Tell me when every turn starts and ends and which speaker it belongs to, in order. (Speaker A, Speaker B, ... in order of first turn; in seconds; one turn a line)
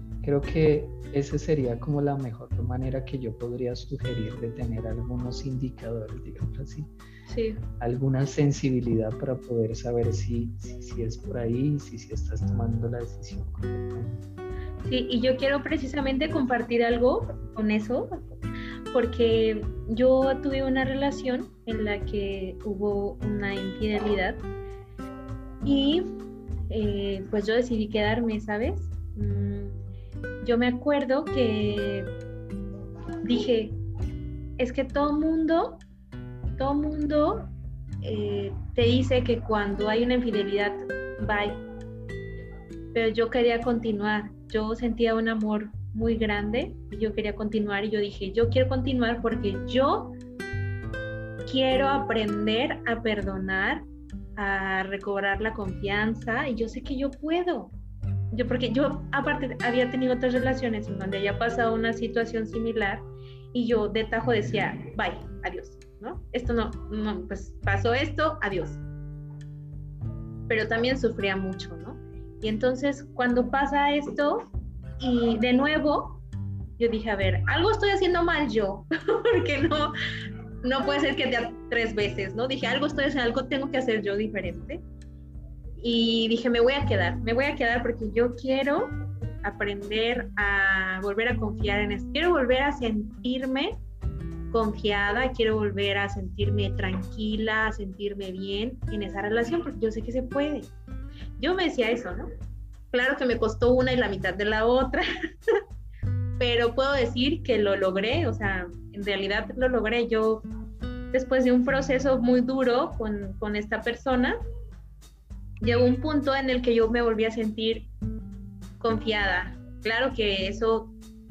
Speaker A: 0.2-6.9
Speaker B: 7.3-7.6
Speaker A: 7.8-14.2
Speaker B: 14.8-18.2
Speaker B: 18.9-24.4
Speaker B: 25.6-26.1
Speaker B: 26.7-29.8
Speaker B: 30.4-32.1
Speaker B: 33.2-33.8
Speaker B: 34.6-35.8
Speaker B: 36.6-37.5
Speaker B: 38.0-41.6
Speaker B: 42.9-50.1
Speaker B: 51.5-53.9
Speaker B: 54.4-57.7
Speaker B: 58.3-68.8
Speaker A: 64.2-64.7
Speaker B: 70.5-74.5
Speaker B: 75.0-76.2
Speaker B: 76.8-79.9
Speaker B: 80.6-84.8
Speaker B: 85.8-93.8
Speaker B: 94.5-100.7
Speaker B: 101.4-102.2
Speaker B: 102.9-105.0
Speaker B: 106.4-110.5
Speaker B: 111.1-114.4
Speaker B: 115.6-117.9
Speaker B: 118.8-120.9